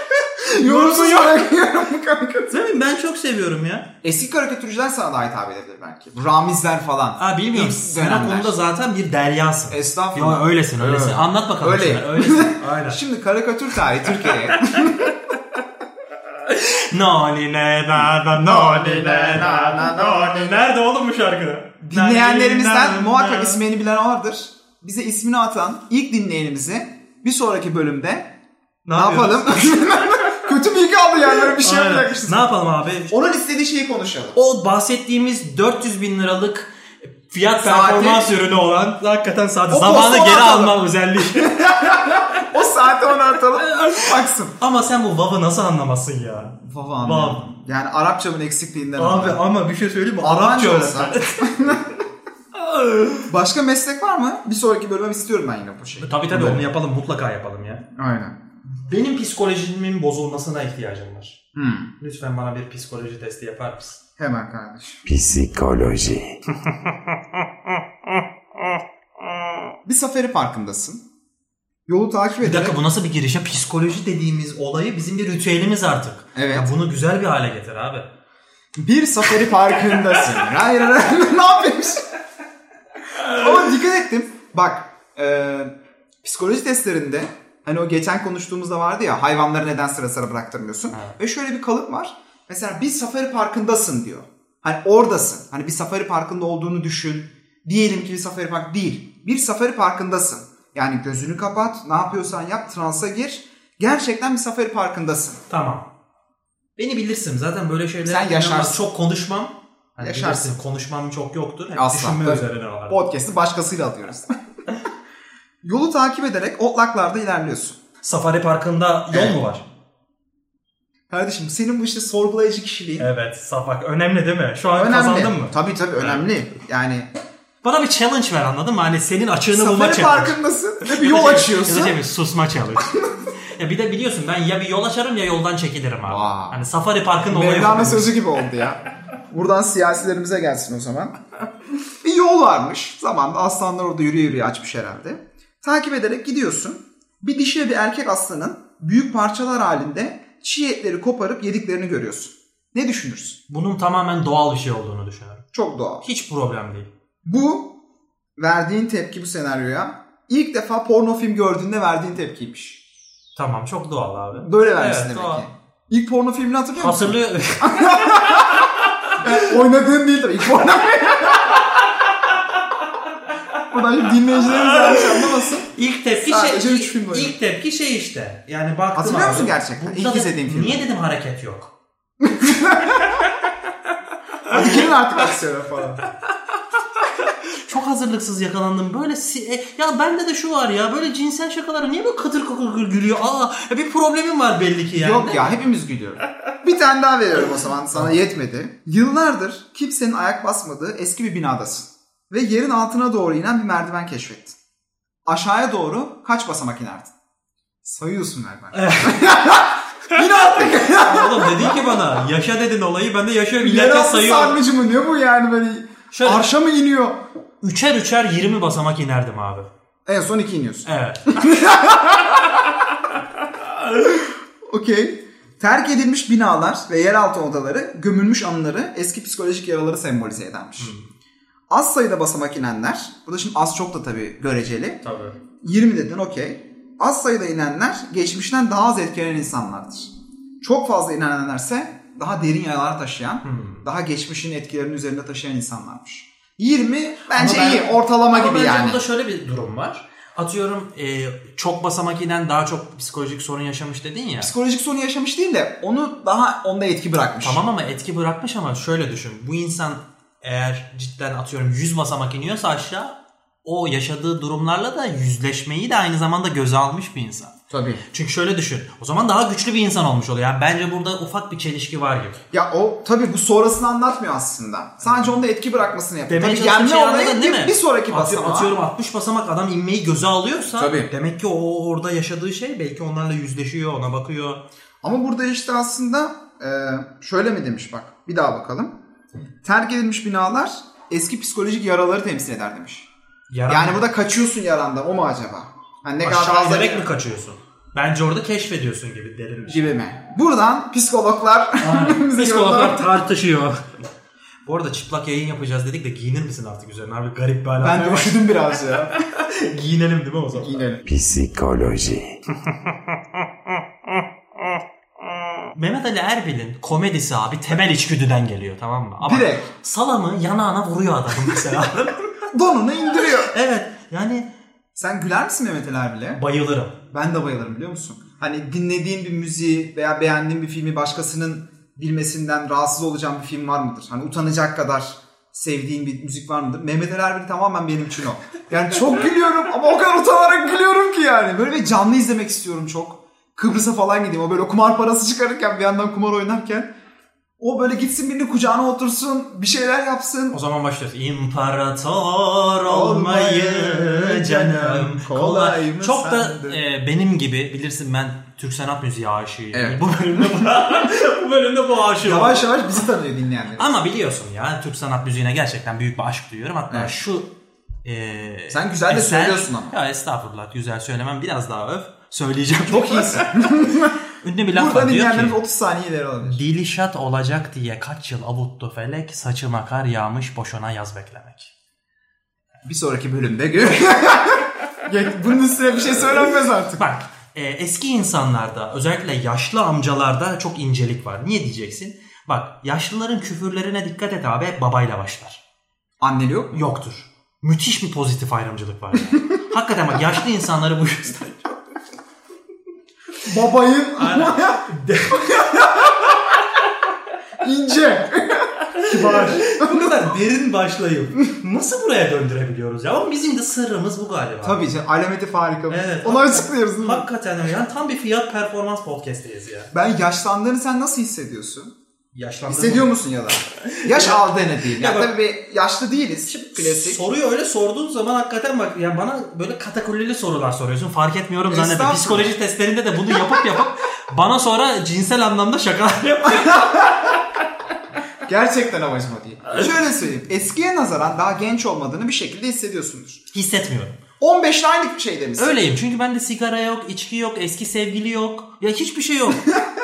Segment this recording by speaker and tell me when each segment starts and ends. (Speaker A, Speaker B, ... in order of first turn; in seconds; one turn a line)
Speaker A: 0.5-1.5
Speaker B: 0.5-2.5
Speaker A: 2.5-3.9
Speaker B: 4.0-8.6
Speaker A: 7.2-13.0
Speaker B: 9.7-15.1
Speaker A: 16.4-23.6
Speaker B: 18.0-20.6
Speaker B: 21.8-28.4
Speaker A: 28.9-30.3
Speaker B: 28.9-32.5
Speaker A: 31.6-33.1
Speaker B: 33.1-34.4
Speaker A: 34.4-42.5
Speaker B: 37.6-38.3
Speaker B: 39.7-40.8
Speaker B: 41.3-44.5
Speaker A: 43.6-47.4
Speaker B: 46.6-49.4
Speaker A: 49.0-51.8
Speaker B: 50.2-51.9
Speaker A: 52.5-53.3
Speaker B: 53.3-56.6
Speaker A: 56.0-57.9
Speaker B: 58.0-58.4
Speaker A: 58.6-61.4
Speaker B: 61.5-61.9
Speaker A: 62.0-64.0
Speaker B: 64.2-65.0
Speaker C: 65.0-66.4
Speaker B: 69.8-71.0
Speaker B: 71.9-72.8
Speaker A: 72.4-78.1
Speaker B: 76.3-76.7
Speaker B: 78.8-82.1
Speaker B: 83.2-105.4
Speaker A: 105.5-105.9
Speaker A: 106.8-113.0
Speaker B: 108.0-108.8
Speaker B: 110.0-110.6
Speaker B: 111.8-114.3
Speaker B: 115.6-117.8
Speaker A: 118.0-119.6
Speaker B: 119.1-119.4
Speaker B: 121.1-123.1
Speaker A: 123.0-126.2
Speaker B: 124.8-127.1
Speaker A: 127.6-133.0
Speaker B: 129.5-132.0
Speaker A: 133.6-138.2
Speaker B: 136.1-136.6
Speaker B: 137.3-141.2
Speaker B: 142.0-153.4
Speaker A: 153.5-155.4
Speaker B: 155.5-156.1
Speaker A: 156.0-156.9
Speaker B: 157.2-157.8
Speaker B: 158.4-162.8
Speaker A: 163.4-165.5
Speaker B: 164.4-171.6
Speaker A: 166.8-169.2
Speaker B: 173.7-175.7
Speaker A: 174.4-181.7
Speaker B: 176.2-177.3
Speaker B: 178.9-180.8
Speaker B: 182.2-183.2
Speaker B: 184.5-186.1
Speaker A: 187.2-195.6
Speaker B: 194.9-204.6
Speaker A: 197.9-198.2
Speaker B: 205.3-207.1
Speaker B: 207.8-211.9
Speaker A: 208.7-209.3
Speaker A: 210.7-214.6
Speaker B: 213.6-217.2
Speaker A: 216.1-216.5
Speaker A: 217.6-219.7
Speaker B: 220.1-222.7
Speaker A: 220.8-221.3
Speaker B: 223.9-230.9
Speaker A: 230.8-231.1
Speaker B: 231.7-235.0
Speaker A: 235.0-235.4
Speaker B: 235.6-249.0
Speaker A: 243.4-243.9
Speaker A: 247.3-254.5
Speaker B: 254.4-257.6
Speaker A: 257.4-267.6
Speaker B: 267.7-268.0
Speaker A: 268.1-272.4
Speaker B: 272.5-278.7
Speaker A: 275.0-275.3
Speaker A: 276.3-284.6
Speaker B: 280.8-281.1
Speaker B: 285.0-289.0
Speaker B: 289.6-293.1
Speaker A: 293.5-294.1
Speaker B: 293.7-297.1
Speaker A: 296.2-299.9
Speaker B: 299.7-303.1
Speaker A: 301.8-304.0
Speaker A: 304.6-311.0
Speaker B: 307.8-309.2
Speaker B: 310.6-311.0
Speaker C: 311.1-312.4
Speaker A: 315.7-322.4
Speaker B: 319.2-319.7
Speaker B: 322.5-323.5
Speaker A: 323.2-324.5
Speaker B: 324.9-326.4
Speaker A: 326.4-327.0
Speaker B: 327.1-346.9
Speaker B: 347.6-350.6
Speaker A: 350.5-362.8
Speaker B: 352.9-356.8
Speaker B: 359.7-360.7
Speaker B: 362.2-363.9
Speaker A: 363.8-367.5
Speaker A: 368.1-375.6
Speaker B: 368.7-369.9
Speaker B: 372.9-374.2
Speaker B: 374.7-376.6
Speaker A: 376.4-381.7
Speaker B: 382.8-387.0
Speaker A: 387.0-395.6
Speaker B: 396.2-396.8
Speaker A: 396.7-401.8
Speaker B: 403.4-406.4
Speaker A: 404.2-405.6
Speaker B: 407.6-410.3
Speaker A: 409.0-414.9
Speaker B: 414.6-417.3
Speaker A: 415.9-419.9
Speaker B: 419.9-421.9
Speaker A: 422.3-423.2
Speaker B: 422.7-427.2
Speaker A: 423.8-425.3
Speaker A: 426.4-437.1
Speaker B: 431.7-432.5
Speaker B: 436.5-437.3
Speaker B: 438.4-443.4
Speaker A: 443.5-444.2
Speaker B: 444.4-445.8
Speaker A: 445.6-449.7
Speaker B: 449.6-449.9